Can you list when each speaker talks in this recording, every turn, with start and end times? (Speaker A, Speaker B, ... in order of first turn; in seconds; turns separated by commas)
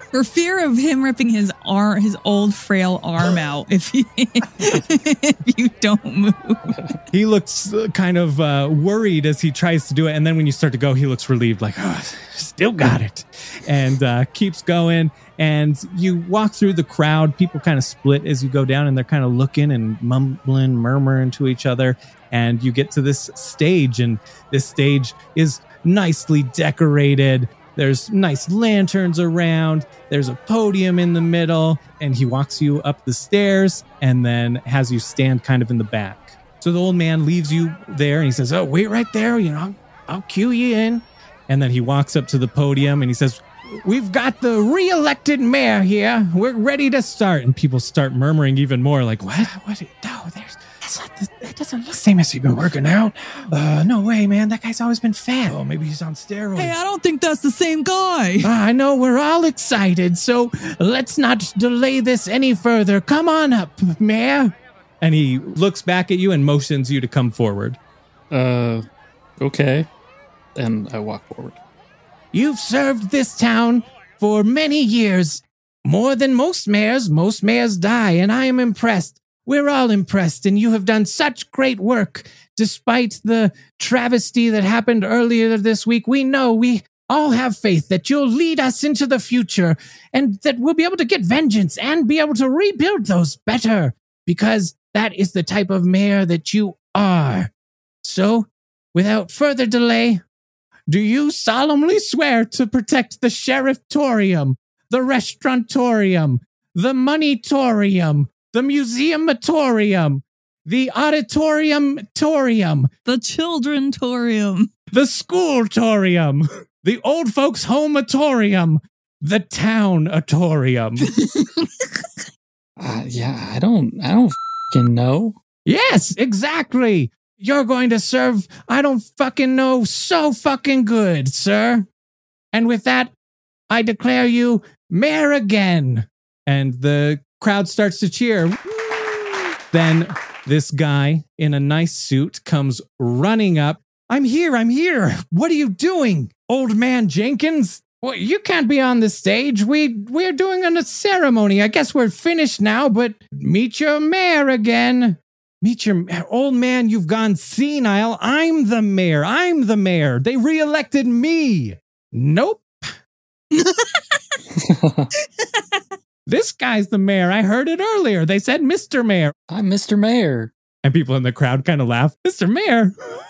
Speaker A: 0.1-6.7, Speaker B: 6.7-7.0, Speaker C: 7.1-56.8, Speaker A: 56.6-58.5, Speaker C: 58.4-67.8, Speaker B: 68.3-68.8, Speaker B: 69.4-69.9, Speaker B: 70.5-71.6, Speaker C: 72.3-97.5, Speaker C: 98.0-100.2, Speaker C: 100.9-112.9, Speaker A: 113.0-114.7, Speaker C: 114.9-121.1, Speaker A: 121.4-122.0, Speaker B: 122.8-125.4, Speaker C: 125.6-131.9, Speaker C: 132.5-133.1, Speaker C: 133.7-162.9, Speaker A: 163.5-164.0, Speaker B: 164.5-165.1, Speaker A: 165.4-165.8, Speaker C: 166.3-169.3, Speaker B: 169.5-170.5, Speaker C: 170.8-172.9